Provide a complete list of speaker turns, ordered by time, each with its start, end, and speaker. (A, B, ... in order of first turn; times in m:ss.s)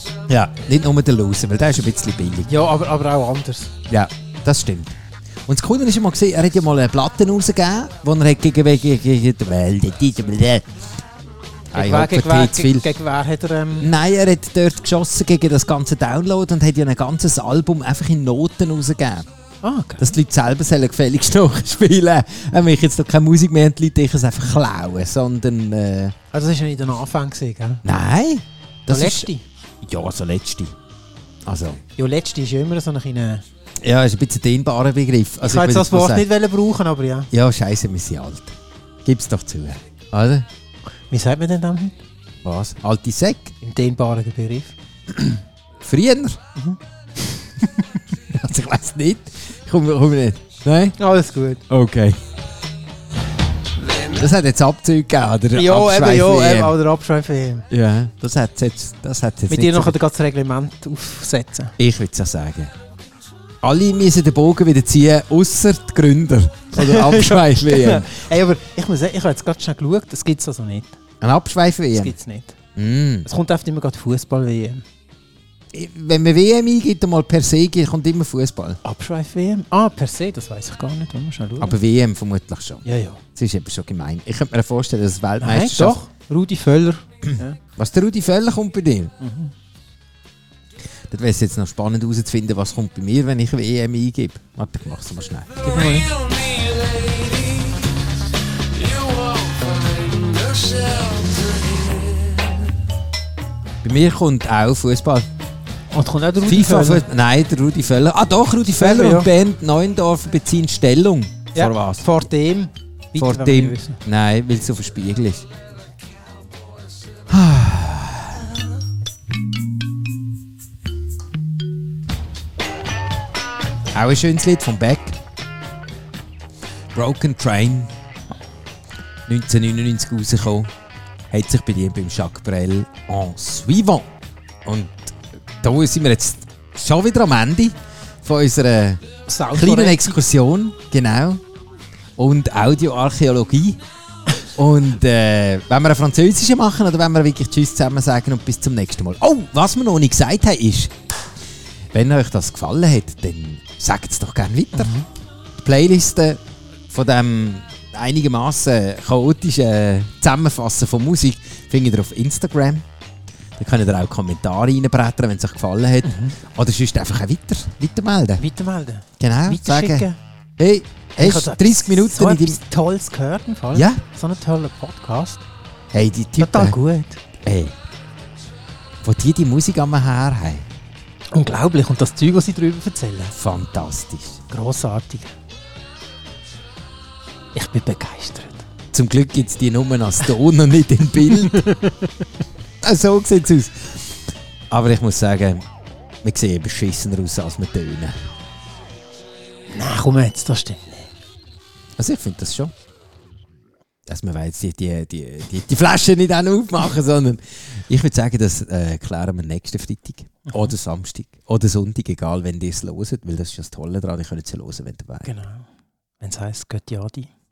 0:00.3-0:02.6 A
0:02.5-0:03.7 B
0:03.9-0:04.9 A
0:05.5-0:10.7 A
0:11.7-0:12.9 A
0:11.7-0:13.9 B
0:13.8-0:19.3 A
0:19.6-0:20.0 B
0:20.0-0:26.1 A
0:26.3-0:27.8 B
0:27.8-0:29.3 A
0:28.9-0:29.4 B
0:29.8-0:30.7 A
0:31.4-0:31.8 A
0:32.0-0:33.4 B
0:33.8-0:36.3 A
0:35.4-0:37.3 B
0:37.3-0:40.4 A
0:41.1-0:42.0 B
0:42.4-0:43.5 A
0:43.6-0:45.4 B
0:45.8-0:46.4 A
0:46.6-0:47.8 B
0:48.3-0:51.0 A
0:51.0-0:51.6 B
0:51.7-0:52.2 A
0:53.8-0:54.3 C
0:54.1-0:56.7 A
0:55.5-0:57.7 B
0:57.7-1:00.0 A
0:59.5-1:01.7 B
1:01.8-1:02.7 A
1:03.6-1:08.2 A
1:06.7-1:11.0 B
1:11.2-1:12.1 A
1:11.9-1:12.6 B
1:12.8-1:13.3 A
1:13.2-1:14.8 B
1:15.7-1:18.8 A
1:18.8-1:21.8 B
1:21.6-1:26.0 A
1:22.8-1:23.2 B
1:25.4-1:27.6 B
1:27.3-1:29.1 A
1:29.2-1:29.5 B
1:31.1-1:35.5 A
1:35.6-1:36.1 B
1:35.7-1:37.9 C
1:38.7-1:42.7 C
1:43.8-1:45.3 A
1:45.9-1:47.0 B
1:46.4-1:52.2 A
1:48.8-1:49.3 B
1:51.5-1:54.0 B
1:53.1-1:55.4 A
1:57.3-1:58.5 A
2:03.9-2:05.2 A
2:06.9-2:07.9 A
2:09.3-2:10.7 A
2:11.3-2:14.1 A
2:14.6-2:21.4 A
2:19.3-2:20.2 B
2:22.2-2:23.8 A
2:24.5-2:30.9 A
2:31.9-2:34.9 A
2:34.8-2:35.0 B
2:35.6-2:42.8 A
2:43.6-2:48.4 A
2:46.0-2:46.4 B
2:48.4-2:50.2 B
2:49.2-2:50.1 A
2:50.6-2:52.6 A
2:51.2-2:55.4 B
2:53.7-2:54.0 A
2:55.9-2:56.8 A
2:56.4-2:57.2 B
2:57.4-2:57.7 A
2:59.0-3:00.6 A
3:01.3-3:03.3 B
3:03.3-3:04.4 A
3:04.5-3:05.3 B
3:07.5-3:08.6 B
3:08.9-3:11.8 A
3:11.5-3:12.0 B
3:12.8-3:15.6 A
3:16.2-3:18.3 A
3:19.7-3:21.1 B
3:22.0-3:22.7 A
3:24.1-3:35.3 A
3:35.2-3:35.7 B
3:36.2-3:37.3 B